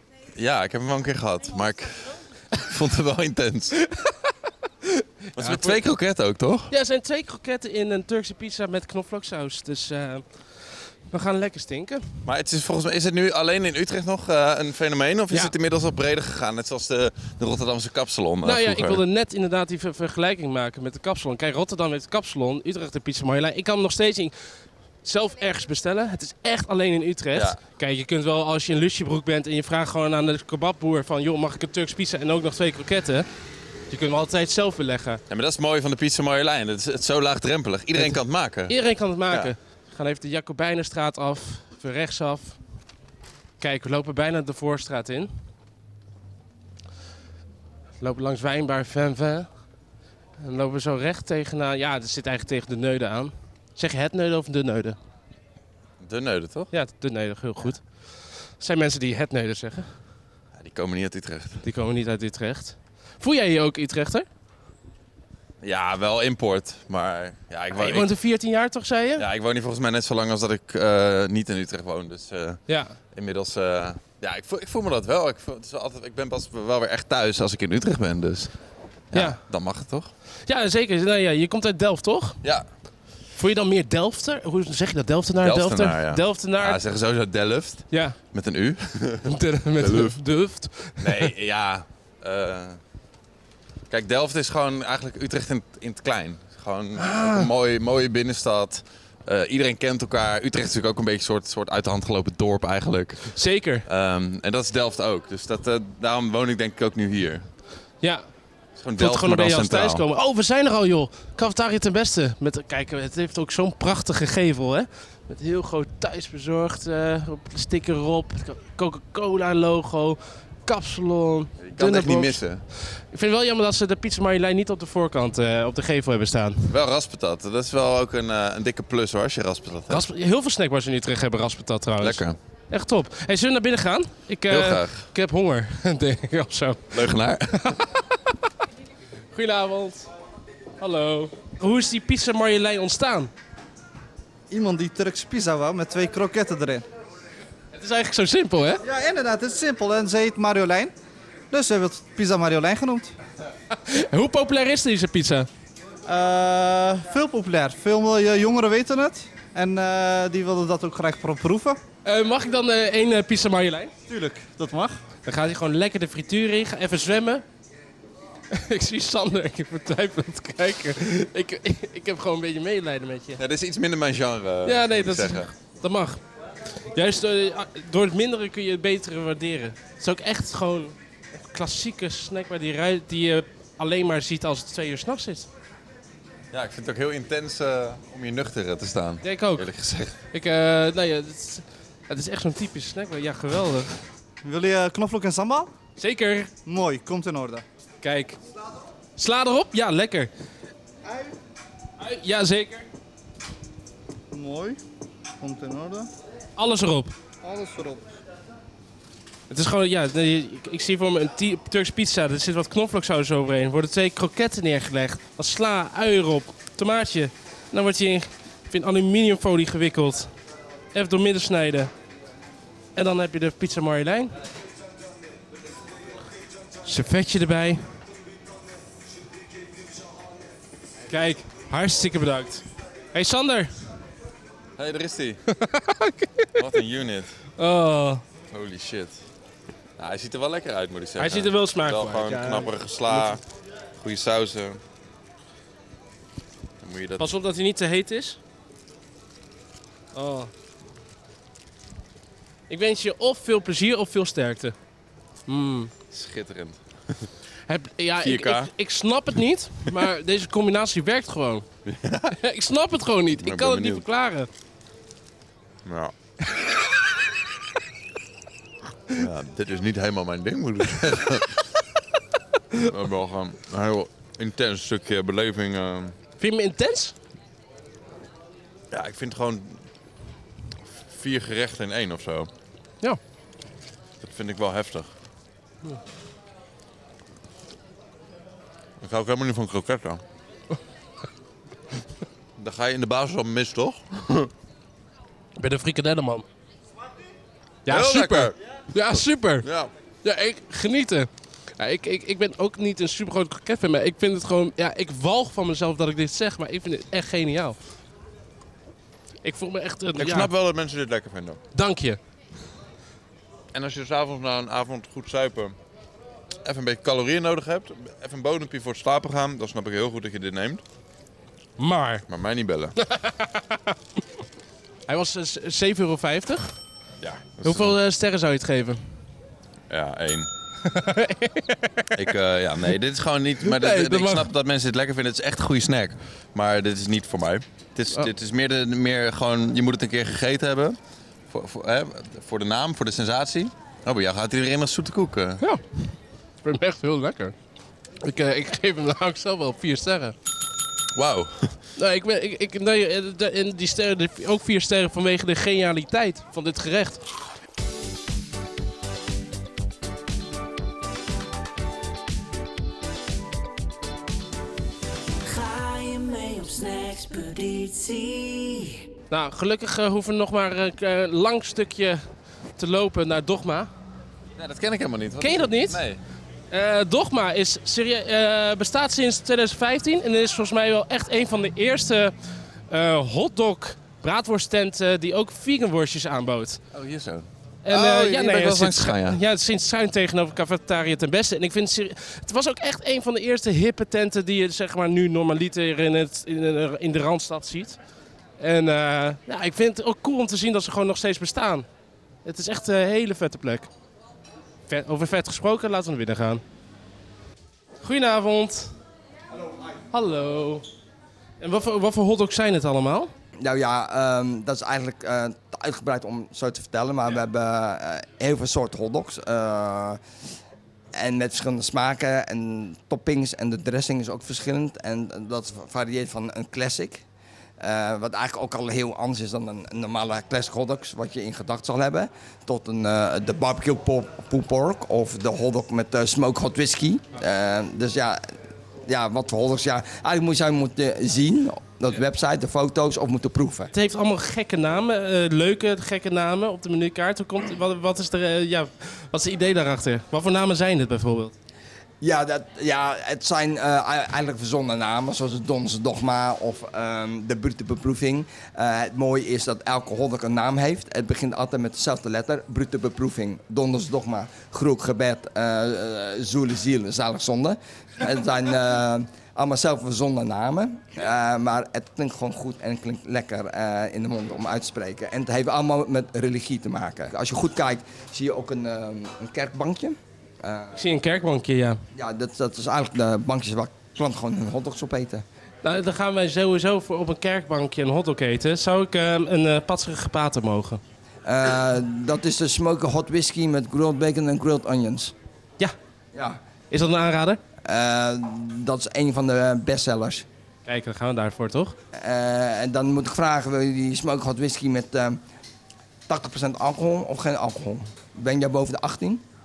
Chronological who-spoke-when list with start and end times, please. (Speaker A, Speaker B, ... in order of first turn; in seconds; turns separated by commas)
Speaker A: 0.3-3.8, Speaker B: 3.8-5.8, Speaker A: 5.4-6.7, Speaker B: 6.7-12.2, Speaker A: 12.2-19.0, Speaker B: 18.4-33.3, Speaker B: 33.9-35.2, Speaker A: 35.3-38.8, Speaker B: 38.0-42.6, Speaker B: 43.6-45.3, Speaker B: 48.0-49.5, Speaker B: 50.4-55.0, Speaker A: 56.0-56.7, Speaker B: 56.7-57.8, Speaker B: 58.4-59.9, Speaker A: 60.5-61.6, Speaker B: 61.6-64.3, Speaker A: 65.6-68.1, Speaker B: 67.7-69.3, Speaker A: 69.2-78.5, Speaker B: 72.7-73.0, Speaker A: 79.1-80.1, Speaker B: 79.1-79.4, Speaker B: 80.5-82.4, Speaker B: 83.4-86.8, Speaker A: 85.4-90.2, Speaker B: 87.9-88.2, Speaker B: 89.2-91.3, Speaker A: 91.0-92.8, Speaker A: 93.9-107.5, Speaker B: 97.0-97.5, Speaker B: 103.3-103.9, Speaker B: 108.0-108.3, Speaker A: 108.8-110.0, Speaker B: 109.0-126.8, Speaker A: 121.6-122.6, Speaker A: 126.7-130.1, Speaker B: 129.9-138.2, Speaker A: 132.0-132.4, Speaker A: 134.5-135.1, Speaker A: 136.9-137.8, Speaker B: 139.3-140.1, Speaker B: 140.8-143.3, Speaker C: 144.5-146.9, Speaker B: 147.7-148.8, Speaker C: 148.8-150.9, Speaker C: 151.5-153.1, Speaker B: 153.7-155.5, Speaker C: 156.1-161.8, Speaker B: 162.1-163.9, Speaker C: 164.1-165.0, Speaker B: 165.3-167.4, Speaker B: 168.5-173.4, Speaker A: 173.4-175.5, Speaker B: 174.7-176.2, Speaker B: 176.9-185.5, Speaker A: 186.5-190.2, Speaker B: 189.2-189.7, Speaker B: 190.3-194.0, Speaker C: 194.4-195.7, Speaker B: 196.0-196.5, Speaker C: 196.7-197.6, Speaker B: 198.0-198.4, Speaker B: 199.2-200.3, Speaker B: 202.0-202.9, Speaker C: 204.3-204.8, Speaker C: 205.4-206.1, Speaker B: 206.6-207.1, Speaker C: 207.4-208.1, Speaker B: 209.5-220.3, Speaker B: 220.9-221.9, Speaker B: 222.9-224.3, Speaker B: 226.8-227.8, Speaker B: 231.1-233.7, Speaker A: 234.8-235.4, Speaker B: 235.5-236.6, Speaker A: 236.6-237.4, Speaker B: 237.6-238.2, Speaker A: 238.5-239.2, Speaker A: 240.0-243.4, Speaker B: 241.2-243.3, Speaker A: 244.0-244.8, Speaker A: 246.8-247.3, Speaker B: 247.2-248.4, Speaker B: 250.2-250.5, Speaker B: 252.7-254.8, Speaker B: 255.5-255.9, Speaker A: 256.1-257.3, Speaker B: 257.7-261.7, Speaker A: 258.2-258.7, Speaker A: 261.9-262.4, Speaker B: 262.3-264.5, Speaker A: 263.4-264.0, Speaker A: 265.9-266.1, Speaker A: 269.2-271.7, Speaker A: 272.8-276.1, Speaker B: 276.4-277.1, Speaker A: 278.9-279.8, Speaker A: 281.1-282.5, Speaker A: 284.2-285.1, Speaker A: 289.0-290.2, Speaker A: 292.6-294.5, Speaker B: 295.6-296.5, Speaker B: 297.9-299.7, Speaker A: 297.9-299.9, Speaker B: 300.2-307.8, Speaker B: 309.4-310.5, Speaker A: 310.2-311.6, Speaker B: 311.8-312.2, Speaker A: 313.7-315.8, Speaker A: 316.6-320.8, Speaker B: 321.8-322.2, Speaker A: 322.3-323.0, Speaker B: 323.0-324.0, Speaker B: 325.1-326.7, Speaker A: 327.2-328.0, Speaker B: 327.6-329.1, Speaker A: 329.9-330.5, Speaker B: 330.8-332.2, Speaker A: 332.1-341.0, Speaker B: 333.6-334.5, Speaker A: 341.5-345.6, Speaker B: 346.6-347.6, Speaker B: 348.2-350.4, Speaker A: 351.1-351.8, Speaker B: 352.0-357.2, Speaker D: 365.4-369.1, Speaker B: 369.3-372.2, Speaker B: 372.8-373.9, Speaker A: 374.6-376.2, Speaker B: 375.4-376.0, Speaker B: 376.7-382.3, Speaker B: 382.9-386.8, Speaker A: 386.9-389.4, Speaker B: 387.9-398.0, Speaker B: 398.6-401.9, Speaker B: 402.4-403.9, Speaker B: 404.9-406.6, Speaker B: 408.0-408.9, Speaker B: 410.1-410.9, Speaker B: 411.6-413.3, Speaker E: 413.6-420.2, Speaker E: 421.1-427.2, Speaker E: 427.8-438.4, Speaker E: 439.1-443.9, Speaker B: 443.9-451.5, Speaker E: 452.2-481.1, Speaker B: 481.0-482.0, Speaker E: 482.1-485.4, Speaker B: 485.8-491.0, Speaker E: 491.4-495.3, Speaker E: 496.3-496.6, Speaker B: 496.9-497.6, Speaker E: 497.8-500.5, Speaker B: 500.9-502.0, Speaker E: 502.1-505.4, Speaker E: 506.3-509.4